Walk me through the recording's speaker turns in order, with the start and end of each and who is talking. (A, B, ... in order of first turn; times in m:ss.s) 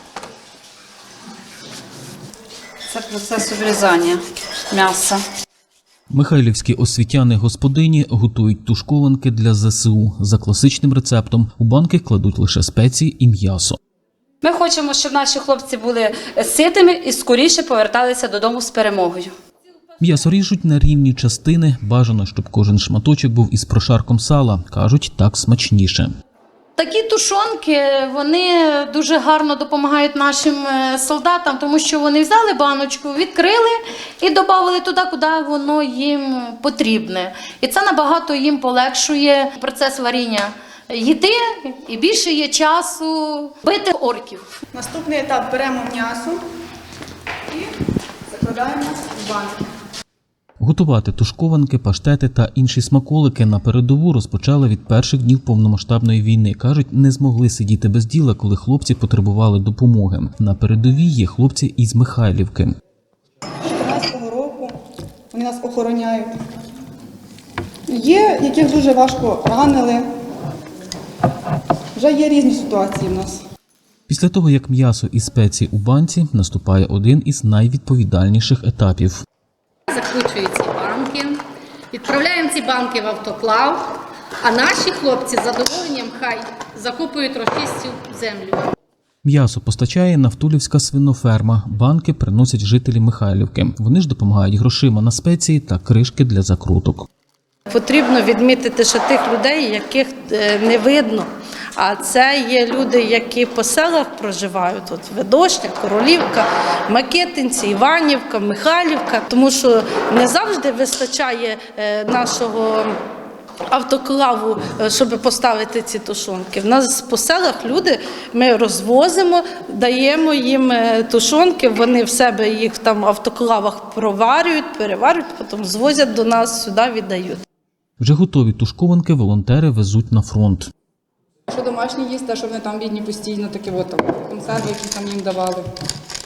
0:02.9-0:05.2 A
0:06.1-0:13.8 B
0:14.4-0:19.3 A
0:20.0-0:26.1 B
0:26.8-0:44.4 C
0:44.7-0:46.4 D
0:48.3-0:49.6 D
0:50.6-1:02.7 B
1:03.6-1:04.7 D
1:05.3-1:06.3 D
1:07.9-1:10.1 D
1:12.0-1:13.4 D
1:14.1-1:19.2 B
1:19.9-1:28.7 E
1:29.2-1:37.0 B
1:37.7-1:53.0 F
1:53.7-2:07.4 F
2:08.0-2:10.7 B
2:11.5-2:15.6 G